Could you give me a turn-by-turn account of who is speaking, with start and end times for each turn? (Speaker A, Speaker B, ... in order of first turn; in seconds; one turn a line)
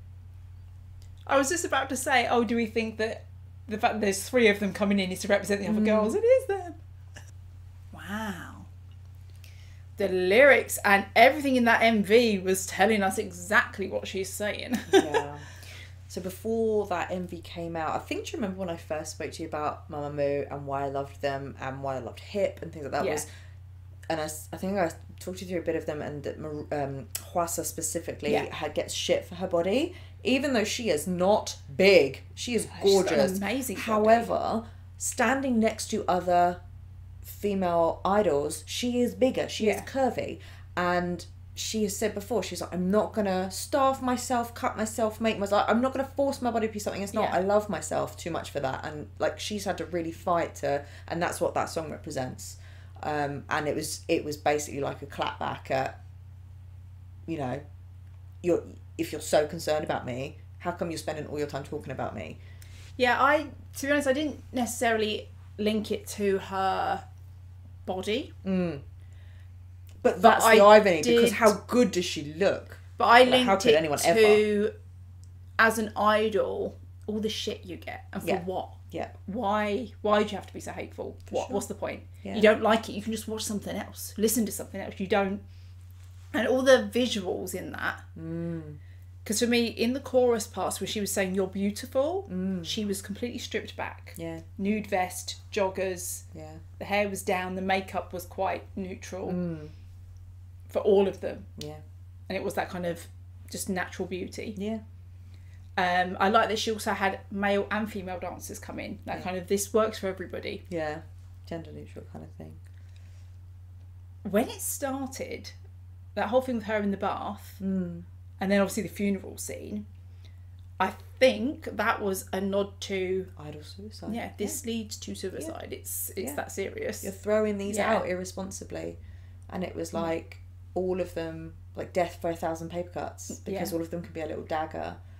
Speaker A: 1.2-6.8
Speaker B: 5.6-6.2
Speaker A: 7.9-8.7
Speaker A: 10.0-15.2
Speaker B: 14.9-15.4
Speaker B: 16.1-23.3
Speaker A: 23.0-23.2
Speaker B: 24.1-36.6
Speaker A: 32.7-34.3
Speaker B: 37.2-56.0
Speaker A: 39.6-39.9
Speaker A: 47.1-47.4
Speaker B: 57.2-57.6
Speaker B: 58.4-62.4
Speaker A: 63.0-67.0
Speaker A: 67.8-68.3
Speaker B: 68.4-68.8
Speaker B: 70.0-74.4
Speaker A: 70.2-71.5
Speaker A: 73.0-74.7
Speaker A: 75.6-85.4
Speaker B: 78.2-79.1
Speaker B: 81.3-81.7
Speaker B: 82.2-82.5
Speaker A: 86.3-88.0
Speaker B: 88.2-88.8
Speaker A: 89.2-96.2
Speaker B: 92.3-92.8
Speaker B: 94.2-94.4
Speaker B: 96.3-96.6
Speaker A: 96.8-99.4
Speaker B: 99.3-99.7
Speaker A: 100.7-101.5
Speaker B: 101.6-101.8
Speaker A: 102.3-104.6
Speaker B: 104.5-104.8
Speaker A: 105.8-110.6
Speaker B: 110.7-112.6
Speaker A: 114.2-115.5
Speaker A: 116.1-117.6
Speaker B: 117.6-118.0
Speaker A: 118.4-119.8
Speaker A: 120.8-123.3
Speaker B: 123.3-124.6
Speaker A: 124.1-127.1
Speaker B: 127.0-135.0
Speaker A: 127.7-128.0
Speaker A: 133.3-133.7